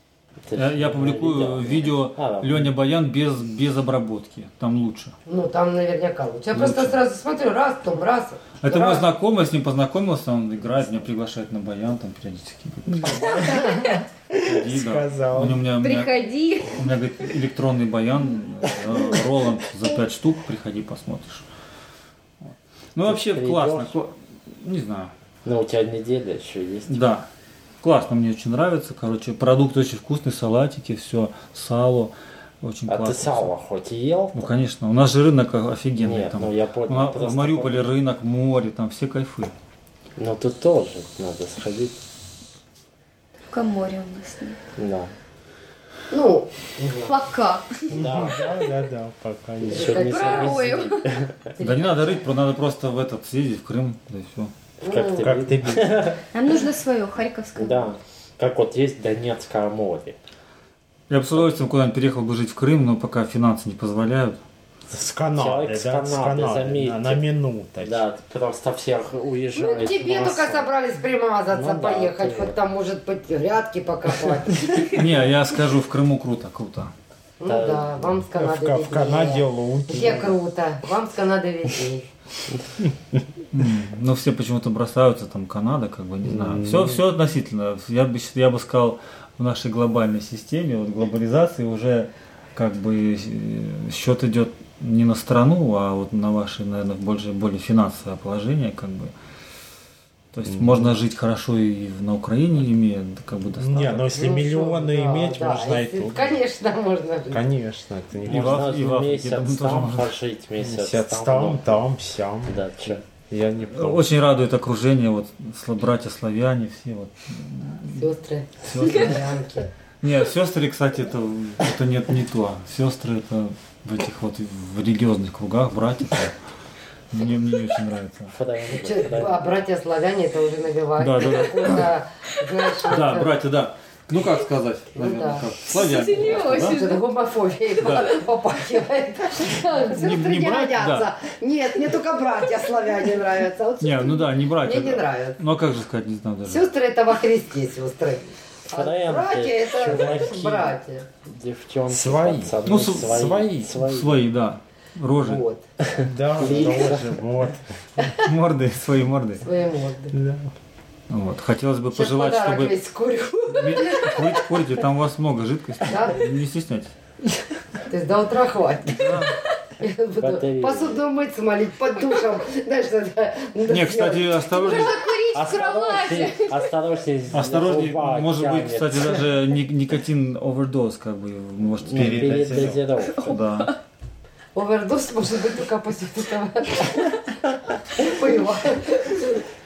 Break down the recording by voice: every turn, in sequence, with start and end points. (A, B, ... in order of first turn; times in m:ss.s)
0:00.5-0:02.7 A
0:00.5-0:05.1 B
0:05.2-0:09.0 C
0:06.5-0:07.0 B
0:08.6-0:13.7 B
0:13.2-0:15.6 D
0:13.4-0:13.9 C
0:14.4-0:16.1 B
0:15.8-0:16.8 E
0:16.7-0:21.4 B
0:22.4-0:25.1 B
0:23.0-0:24.0 A
0:25.4-0:26.9 A
0:26.9-0:27.3 B
0:27.8-0:33.5 B
0:32.9-0:34.5 A
0:34.3-0:39.5 B
0:36.0-0:37.9 A
0:40.2-0:42.0 A
0:43.5-0:44.6 E
0:44.8-0:45.1 A
0:46.1-0:47.2 C
0:47.0-0:48.5 E
0:47.9-0:48.5 A
0:47.9-0:50.0 D
0:49.6-0:51.5 A
0:49.7-0:50.6 C
0:49.9-0:51.1 E
0:51.6-0:52.2 C
0:51.6-0:54.5 B
0:54.8-0:55.3 C
0:54.9-0:56.2 A
0:55.2-0:56.2 D
0:56.3-0:57.9 E
0:57.6-1:00.2 A
1:01.1-1:04.4 B
1:04.9-1:08.0 D
1:05.4-1:07.2 A
1:07.8-1:10.7 A
1:09.5-1:14.9 C
1:11.5-1:12.6 A
1:14.9-1:16.9 B
1:17.4-1:22.1 C
1:17.5-1:18.2 A
1:18.3-1:20.3 D
1:23.5-1:39.1 B
1:26.2-1:27.0 D
1:40.3-1:44.0 B
1:40.5-1:40.9 D
1:43.5-1:46.3 D
1:44.1-1:47.4 C
1:47.3-1:48.7 D
1:48.2-1:50.1 B
1:48.2-1:51.8 A
1:50.6-1:54.0 D
1:52.5-1:53.0 A
1:53.7-1:58.1 B
1:57.9-1:59.7 C
1:58.6-1:59.2 B
2:00.0-2:06.4 B
2:07.1-2:08.3 B
2:08.3-2:09.5 A
2:08.7-2:13.3 C
2:11.0-2:11.9 B
2:12.9-2:16.8 B
2:14.9-2:15.5 C
2:15.7-2:17.0 E
2:16.2-2:25.4 C
2:17.8-2:18.1 B
2:19.9-2:21.1 B
2:23.8-2:26.7 B
2:26.4-2:31.1 C
2:28.7-2:34.2 A
2:31.9-2:33.5 D
2:32.6-2:35.4 B
2:35.2-2:35.6 C
2:35.8-2:37.2 A
2:36.0-2:37.6 D
2:38.2-2:39.4 B
2:39.4-2:40.2 C
2:40.1-2:40.5 D
2:41.1-2:42.8 B
2:41.9-2:44.5 C
2:43.4-2:46.9 B
2:45.8-2:46.3 C
2:47.9-2:55.2 C
2:48.9-2:49.3 B
2:50.2-2:51.0 A
2:53.7-2:55.0 B
2:54.6-2:56.7 E
2:55.3-2:59.2 A
2:57.3-3:03.7 B
3:01.8-3:03.4 A
3:01.9-3:02.8 D
3:03.1-3:03.8 E
3:04.5-3:07.2 C
3:07.9-3:09.4 C